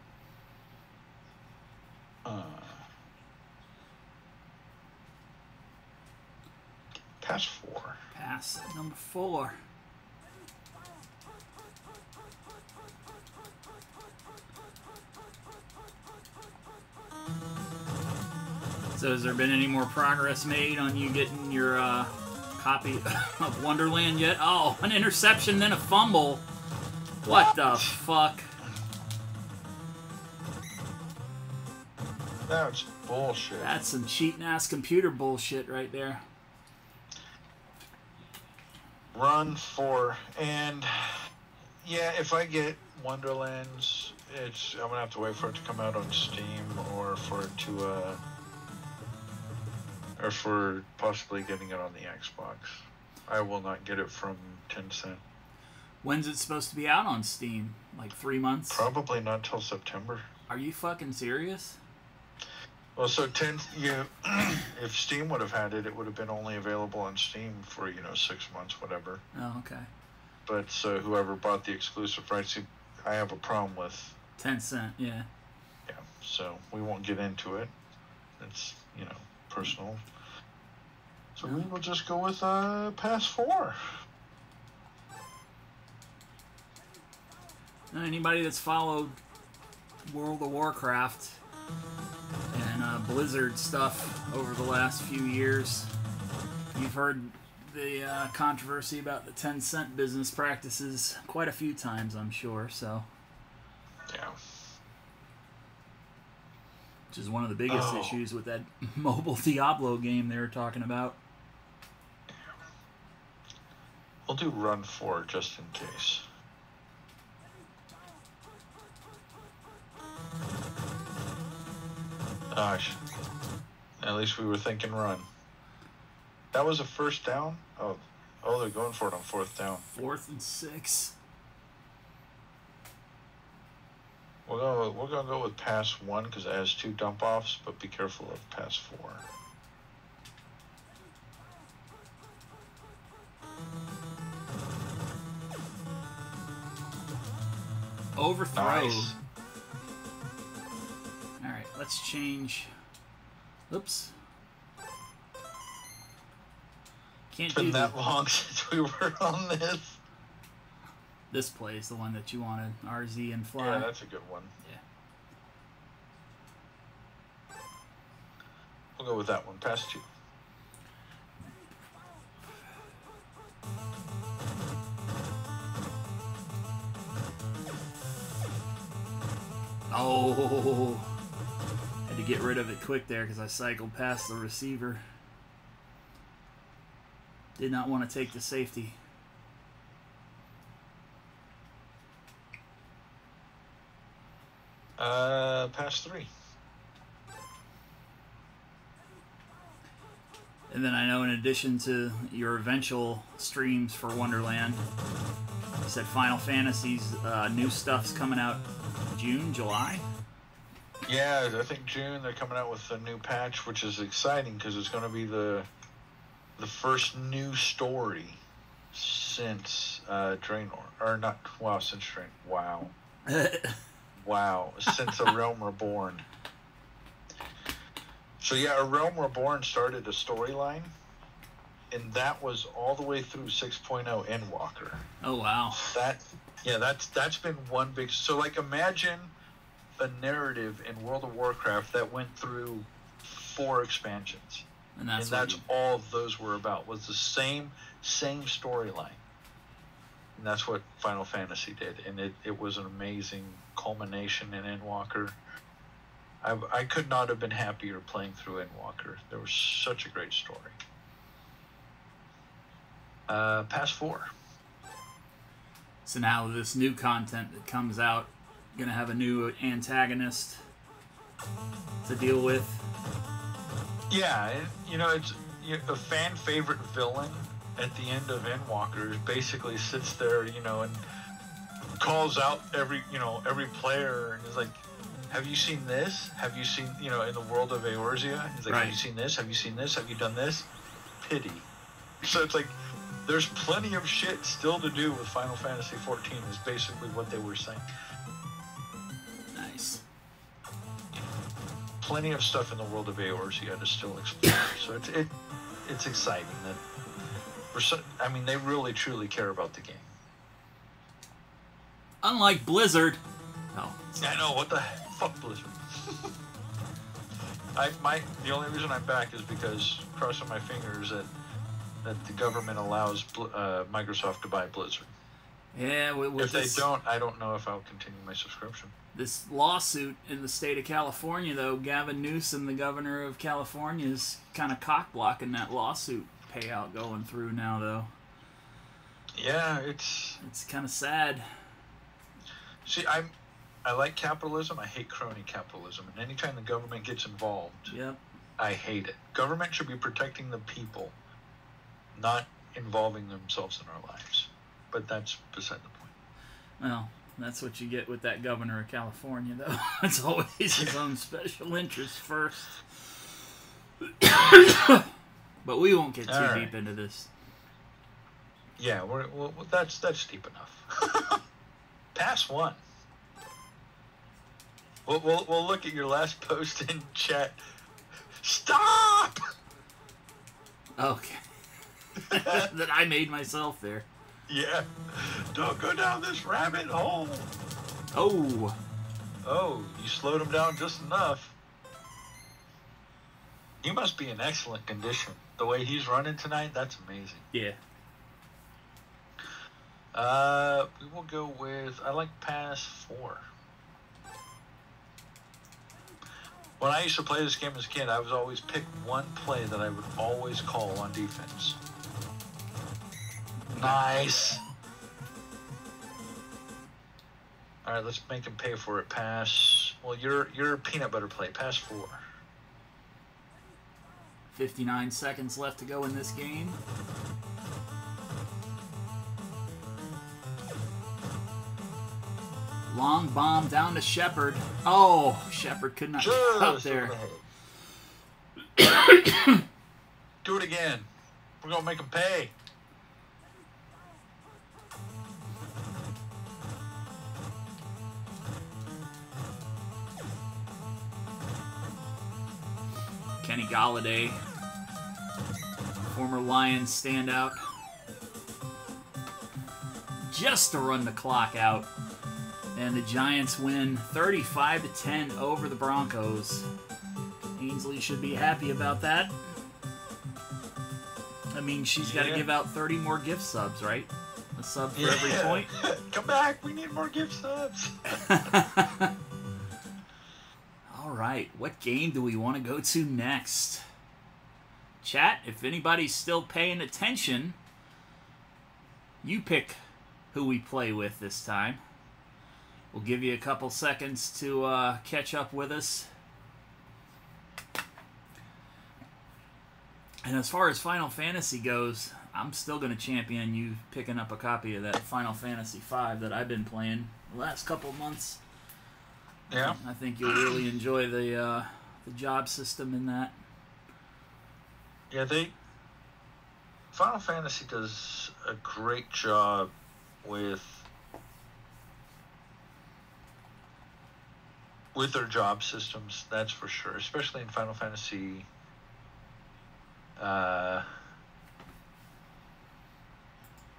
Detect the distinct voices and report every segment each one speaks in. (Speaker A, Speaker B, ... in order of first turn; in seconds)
Speaker A: 2.2-2.9, 7.2-8.0, 27.3-27.9, 32.5-33.7, 39.1-41.3, 41.8-48.2, 50.2-55.2, 58.7-60.2, 63.0-69.2, 70.5-74.2, 75.9-77.7, 78.4-80.0, 81.4-83.8, 104.1-104.4, 107.7-108.2, 114.3-116.2, 122.5-123.0, 124.0-125.3, 126.5-129.8, 134.4-139.3, 148.6-149.2, 157.5-160.0, 163.6-164.5, 169.0-170.1, 195.0-196.3, 211.1-215.7, 216.6-218.4, 218.9-222.9, 224.2-226.2, 228.4-230.9, 231.9-235.0, 235.7-239.3, 240.0-244.7, 245.2-249.2, 250.4-255.4, 256.4-260.8, 263.3-264.3, 274.1-281.0, 282.0-290.7, 291.2-291.7, 292.2-297.9, 302.0-305.3, 305.8-306.8, 307.7-310.1, 314.2-316.3, 317.8-321.3, 322.0-325.1, 326.4-328.9, 339.4-340.4, 342.9-347.9, 348.6-351.1, 352.1-356.1, 366.3-366.7, 368.8-371.4, 372.1-372.8, 375.1-377.6, 378.4-379.4, 382.3-382.7, 384.5-387.5, 389.4-391.5, 393.8-397.4, 400.1-403.4, 406.8-411.8, 413.7-414.6, 417.9-422.2, 436.2-437.4, 440.4-441.1, 441.6-442.5, 472.0-472.5, 474.9-478.2, 509.5-509.8, 515.1-515.5, 516.9-519.7, 520.2-520.9, 524.9-528.5, 530.2-531.0
Speaker B: 8.1-9.6, 18.9-26.4, 27.2-28.5, 33.6-36.2, 56.0-58.9, 60.5-61.8, 69.3-69.9, 74.4-75.3, 87.9-89.2, 90.0-91.4, 92.5-95.9, 96.7-103.1, 107.1-111.2, 129.9-131.1, 148.2-149.1, 151.4-152.7, 153.7-154.1, 157.3-157.9, 161.3-163.9, 179.9-181.1, 182.1-185.0, 187.6-189.0, 200.7-204.8, 205.8-210.1, 223.3-223.8, 235.2-235.8, 244.9-245.6, 266.1-270.6, 272.0-272.9, 288.7-288.9, 299.5-300.0, 312.2-313.2, 313.7-314.0, 325.7-326.9, 329.1-338.1, 340.4-341.5, 347.9-348.2, 356.8-362.8, 364.2-365.1, 365.6-367.3, 381.0-381.4, 382.2-384.1, 388.1-388.8, 397.5-397.8, 413.7-414.0, 424.5-426.8, 432.9-437.1, 453.4-454.4, 456.1-457.6, 460.3-461.9, 462.7-466.7, 467.6-469.4, 471.5-475.7, 478.2-479.1, 480.9-483.8, 485.0-487.6, 489.2-489.8, 490.3-491.8, 492.9-496.1, 500.2-508.4, 509.6-513.4